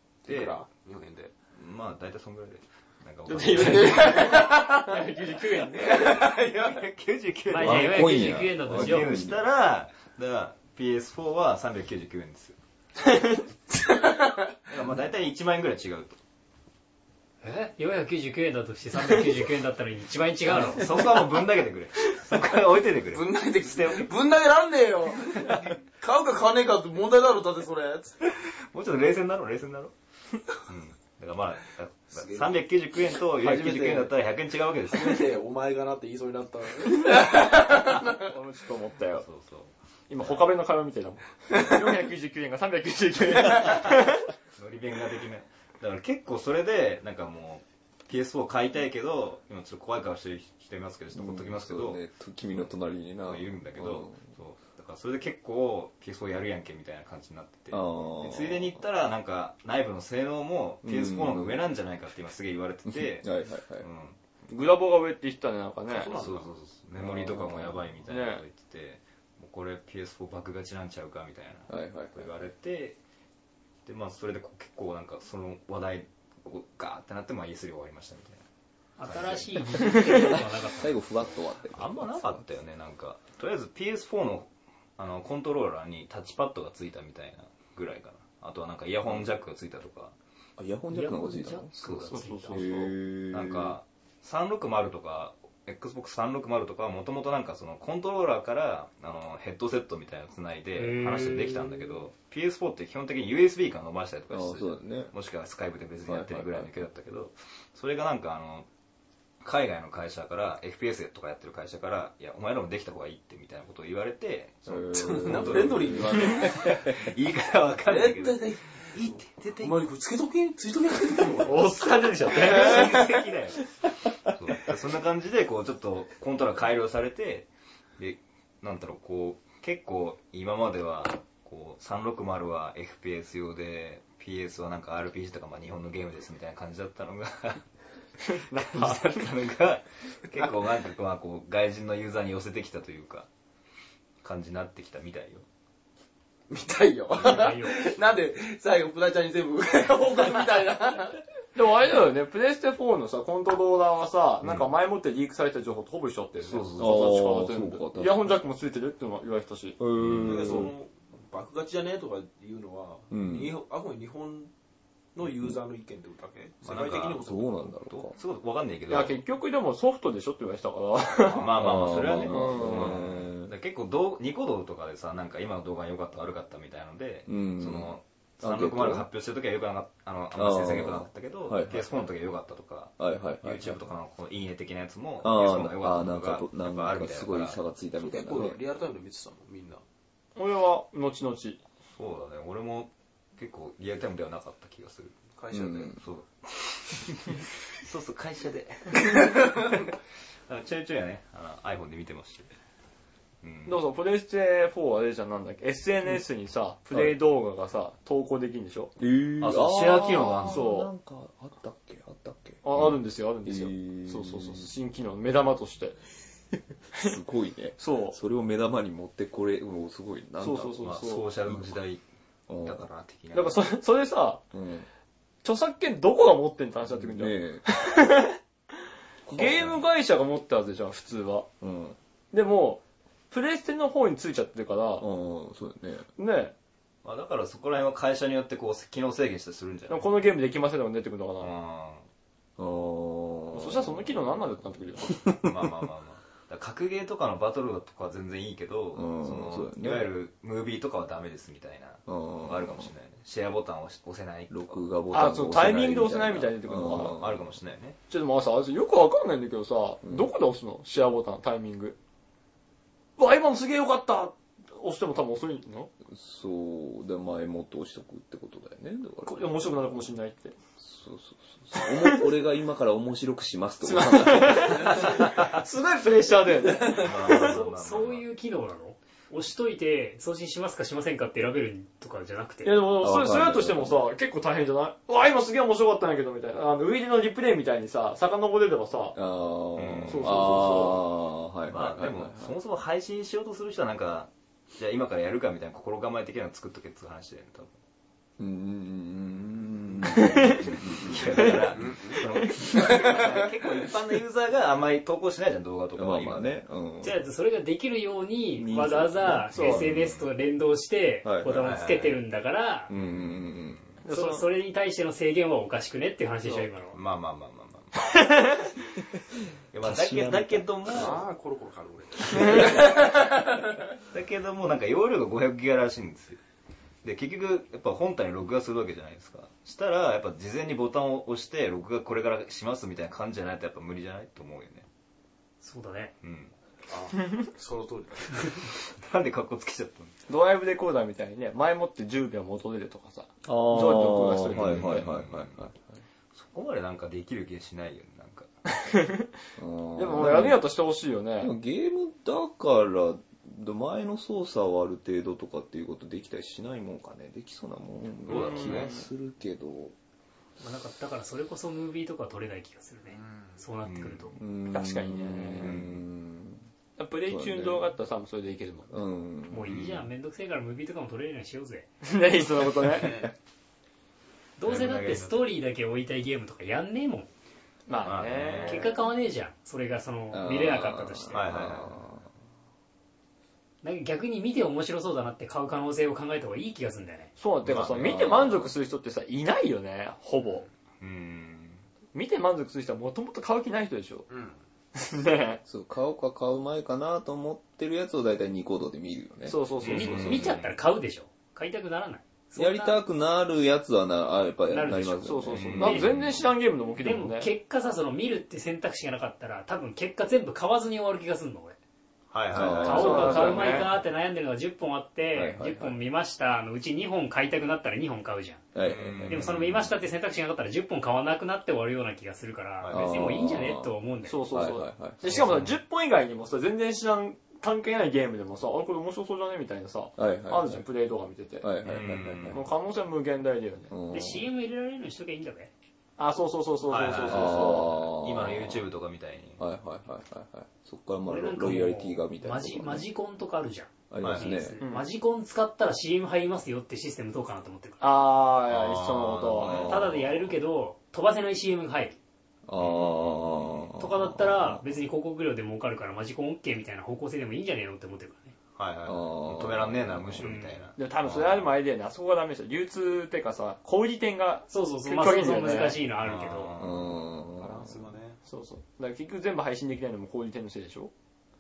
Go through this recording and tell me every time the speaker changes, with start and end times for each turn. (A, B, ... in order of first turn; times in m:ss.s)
0:00.3-0:00.6 A
0:00.3-0:01.3 B
0:01.6-0:04.4 A
0:03.3-0:06.2 C
0:03.6-0:04.8 B
0:05.8-0:06.8 B
0:06.0-0:12.6 A
0:07.5-0:09.2 D
0:07.6-0:09.4 E
0:13.0-0:13.4 C
0:14.7-0:16.2 A
0:17.4-0:21.0 D
0:20.5-0:24.1 A
0:23.1-0:28.3 B
0:28.7-0:29.9 A
0:30.5-0:35.2 A
0:32.1-0:32.5 B
0:33.4-0:34.1 C
0:33.4-0:34.1 B
0:34.9-0:38.3 B
0:38.2-0:39.3 C
0:39.2-0:40.4 A
0:40.1-0:44.3 C
0:43.5-0:52.0 A
0:51.2-0:54.3 E
0:53.2-1:04.2 A
0:57.7-0:58.8 E
1:00.8-1:01.6 E
1:02.9-1:03.9 E
1:04.5-1:06.1 C
1:05.9-1:06.5 B
1:06.0-1:13.0 A
1:07.0-1:07.9 E
1:08.0-1:08.4 C
1:11.7-1:12.3 E
1:13.9-1:18.4 A
1:19.0-1:21.4 D
1:19.0-1:19.9 A
1:20.2-1:22.5 E
1:21.7-1:30.2 A
1:29.1-1:29.3 E
1:30.6-1:33.8 E
1:31.3-1:32.6 D
1:31.3-1:32.9 C
1:31.8-1:32.6 A
1:33.3-1:48.7 A
1:40.8-1:41.7 D
1:44.3-1:45.1 E
1:46.1-1:46.7 E
1:49.4-1:59.8 A
1:54.7-1:56.7 E
1:54.9-1:56.9 B
1:57.9-2:03.0 B
2:01.4-2:03.3 C
2:02.3-2:03.6 A
2:04.4-2:17.6 A
2:18.2-2:19.2 C
2:18.6-2:23.3 A
2:24.2-2:25.4 A
2:26.5-2:31.2 B
2:27.2-2:27.9 D
2:31.6-2:39.8 C
2:36.5-2:36.8 A
2:36.8-2:38.4 E
2:39.8-2:40.7 E
2:40.0-2:40.6 A
2:40.2-2:44.5 B
2:43.1-2:43.5 E
2:45.2-2:47.7 B
2:46.6-2:47.3 A
2:47.2-2:48.2 E
2:47.9-2:49.2 A
2:48.9-2:51.5 C
2:51.2-3:07.6 A
2:51.5-2:53.5 E
2:52.1-2:53.0 C
2:57.3-2:59.1 E
3:00.3-3:01.8 E
3:03.0-3:03.8 E
3:05.2-3:08.6 E
3:08.0-3:09.8 B
3:10.4-3:11.6 C
3:11.9-3:15.2 A
3:15.4-3:16.0 B
3:15.5-3:16.0 E
3:16.0-3:19.9 A
3:20.5-3:22.5 A
3:23.4-3:23.8 A
3:23.7-3:28.9 C
3:26.9-3:27.2 E
3:29.0-3:34.7 E
3:29.4-3:30.7 A
3:30.4-3:30.9 C
3:32.6-3:36.0 C
3:36.9-3:40.8 E
3:37.8-3:38.2 C
3:40.4-3:41.2 C
3:40.8-3:42.0 A
3:41.5-3:41.8 E
3:42.5-3:42.9 E
3:42.6-3:43.6 A
3:43.3-3:44.4 C
3:44.5-3:44.9 E
3:45.4-3:48.4 C
3:46.9-3:47.7 E
3:49.3-3:51.5 C
3:49.3-3:49.8 E
3:51.6-3:52.0 E
3:52.3-3:55.1 C
3:55.0-3:56.1 E
3:56.2-3:56.5 C
3:57.0-4:00.1 A
3:59.9-4:01.6 C
4:01.4-4:02.1 A
4:02.6-4:05.5 E
4:03.5-4:05.2 C
4:05.4-4:14.8 A
4:09.0-4:10.1 E
4:12.1-4:12.9 E
4:14.5-4:17.5 E
4:15.1-4:17.2 C
4:16.8-4:18.0 A
4:18.1-4:22.0 C
4:20.0-4:20.3 E
4:23.2-4:25.9 C
4:26.1-4:29.5 E
4:29.2-4:30.6 C
4:30.8-4:35.2 E
4:31.8-4:32.2 C
4:33.8-4:37.6 C
4:34.9-4:35.4 A
4:36.8-4:38.3 A
4:37.3-4:42.9 D
4:42.6-4:49.2 C
4:43.0-4:44.0 E
4:49.1-4:52.6 E
4:49.8-4:50.5 A
4:50.0-4:51.0 C
4:51.7-4:57.8 A
4:58.4-5:01.8 E
5:00.2-5:00.6 C
5:00.2-5:06.6 A
5:01.7-5:03.3 B
5:06.0-5:07.2 E
5:07.0-5:12.9 D
5:08.6-5:10.1 E
5:08.8-5:09.9 C
5:10.0-5:10.2 A
5:11.2-5:11.8 E
5:11.6-5:12.2 A
5:12.9-5:13.8 E
5:12.9-5:13.9 A
5:14.0-5:14.5 C
5:14.1-5:17.0 D
5:16.9-5:18.2 A
5:18.1-5:18.6 C
5:19.7-5:21.2 A
5:19.8-5:21.2 E
5:20.9-5:23.7 B
5:22.3-5:23.1 A
5:24.1-5:26.4 A
5:27.0-5:34.9 A
5:35.6-5:36.1 D
5:36.2-5:36.5 A
5:36.9-5:38.7 B
5:38.9-5:40.2 A
5:40.3-5:45.1 C
5:43.4-5:46.0 E
5:44.5-5:45.6 A
5:46.4-5:48.5 A
5:48.8-5:49.3 C
5:49.6-5:50.6 E
5:50.0-5:51.5 C
5:51.4-5:59.9 E
5:58.3-5:59.0 A
5:58.3-5:59.0 C
6:00.6-6:04.4 D
6:03.1-6:03.6 B
6:03.8-6:04.4 A
6:04.4-6:06.7 E
6:04.7-6:05.8 C
6:05.4-6:06.0 A
6:07.0-6:08.9 C
6:07.3-6:07.9 E
6:08.9-6:09.9 E
6:09.5-6:11.9 D
6:09.7-6:10.1 A
6:12.0-6:13.3 C
6:12.8-6:13.3 B
6:14.6-6:17.3 D
6:14.6-6:15.4 A
6:17.9-6:19.0 C
6:18.0-6:18.9 A
6:18.6-6:21.4 D
6:20.3-6:22.3 E
6:21.3-6:22.0 A
6:23.8-6:27.3 D
6:27.4-6:30.7 C
6:27.6-6:28.5 A
6:27.6-6:28.7 E
6:31.0-6:31.8 A
6:32.1-6:34.3 C
6:34.3-6:34.6 B
6:35.0-6:35.6 C
6:35.7-6:39.6 E
6:39.4-6:40.6 C
6:39.8-6:40.8 A
6:39.8-6:43.0 D
6:40.2-6:40.5 E
6:42.6-6:46.2 E
6:44.7-6:46.1 D
6:45.2-6:47.5 C
6:45.5-6:46.4 A
6:47.0-6:51.8 D
6:52.3-6:53.8 A
6:52.5-6:53.9 E
6:52.8-6:53.9 C
6:52.8-6:58.6 D
6:55.3-6:56.0 E
6:58.7-6:59.8 E
6:58.8-6:59.9 A
6:59.3-7:04.5 D
7:02.8-7:03.2 A
7:02.9-7:03.9 E
7:04.3-7:11.7 C
7:04.5-7:05.3 E
7:05.2-7:05.7 A
7:10.2-7:10.8 E
7:11.6-7:12.6 E
7:11.8-7:12.6 A
7:12.5-7:13.9 C
7:13.9-7:14.4 E
7:14.1-7:15.7 D
7:16.2-7:18.0 C
7:16.9-7:19.6 A
7:17.3-7:18.9 E
7:19.6-7:23.1 E
7:21.3-7:28.2 D
7:24.1-7:24.8 E
7:24.2-7:24.6 A
7:24.8-7:25.1 C
7:28.0-7:29.9 C
7:28.7-7:30.3 A
7:29.6-7:30.3 E
7:29.6-7:32.2 D
7:32.7-7:34.9 E
7:32.8-7:33.9 A
7:34.0-7:38.5 D
7:38.8-7:41.7 A
7:39.1-7:40.5 E
7:40.4-7:40.8 D
7:41.0-7:46.0 C
7:44.7-7:46.7 D
7:46.2-7:47.2 A
7:46.8-7:48.1 E
7:47.6-7:48.4 B
7:48.4-7:51.1 C